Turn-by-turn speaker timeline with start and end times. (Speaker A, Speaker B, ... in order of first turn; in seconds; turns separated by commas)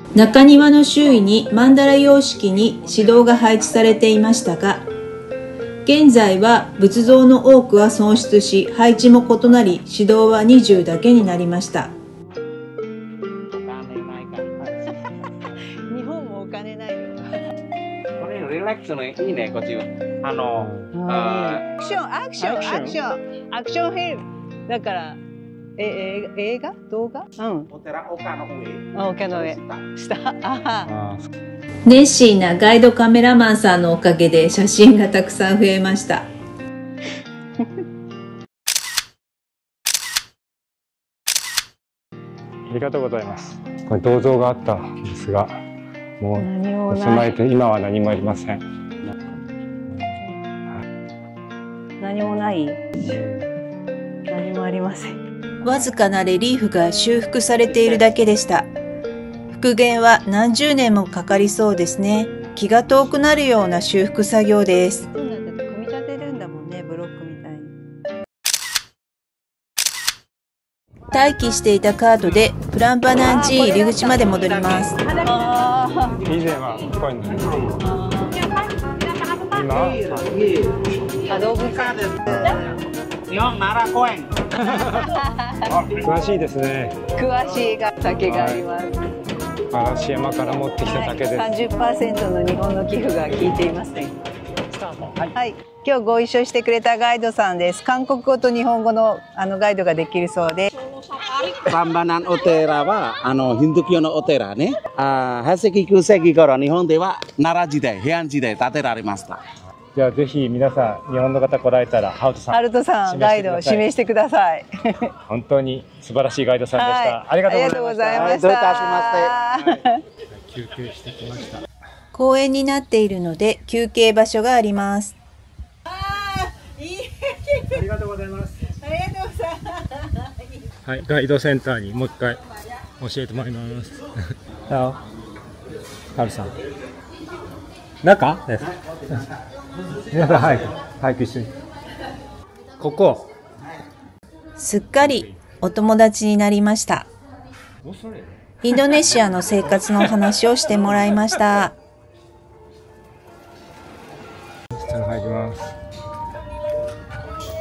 Speaker A: 0.1-4.8, Speaker B: 2.5-4.4, Speaker A: 5.8-11.9, Speaker B: 13.5-15.0, Speaker C: 15.9-17.4, Speaker B: 18.2-21.6, Speaker D: 20.6-20.9, Speaker C: 20.9-25.2, Speaker D: 22.4-23.0, Speaker C: 25.8-27.7, Speaker B: 27.7-29.9, Speaker C: 28.9-30.9, Speaker D: 30.9-31.3, Speaker A: 31.9-36.3, Speaker D: 42.7-45.6, Speaker D: 46.2-48.6, Speaker C: 46.4-47.4, Speaker C: 52.0-53.0, Speaker D: 53.0-53.5, Speaker C: 54.3-55.2, Speaker A: 55.6-58.7, Speaker A: 59.5-65.1, Speaker C: 65.1-67.7, Speaker A: 71.1-75.0, Speaker C: 73.2-76.2, Speaker D: 76.2-77.8, Speaker C: 77.8-78.5, Speaker B: 79.5-80.9, Speaker D: 79.5-80.2, Speaker C: 81.3-82.7, Speaker B: 81.6-82.7, Speaker D: 82.3-82.6, Speaker B: 83.3-84.5, Speaker D: 84.6-85.2, Speaker C: 84.6-85.8, Speaker B: 85.7-86.0, Speaker D: 85.9-87.0, Speaker C: 87.2-89.0, Speaker D: 88.2-88.6, Speaker D: 89.7-91.6, Speaker C: 90.8-94.2, Speaker D: 94.7-95.3, Speaker C: 95.3-100.7, Speaker B: 101.5-109.4, Speaker D: 110.0-113.9, Speaker C: 112.5-115.1, Speaker D: 115.3-118.4, Speaker C: 116.7-120.0, Speaker B: 118.1-119.4, Speaker D: 120.3-121.6, Speaker A: 122.1-125.2, Speaker C: 125.9-127.7, Speaker D: 127.7-128.8, Speaker C: 128.8-130.1, Speaker D: 130.8-132.4, Speaker D: 133.0-134.1, Speaker D: 134.7-135.0, Speaker D: 136.2-136.5, Speaker D: 138.0-139.2, Speaker D: 140.1-141.5, Speaker D: 142.8-143.3, Speaker A: 144.6-147.1, Speaker D: 145.0-145.4, Speaker D: 147.8-148.3, Speaker A: 148.6-151.8, Speaker D: 154.7-155.8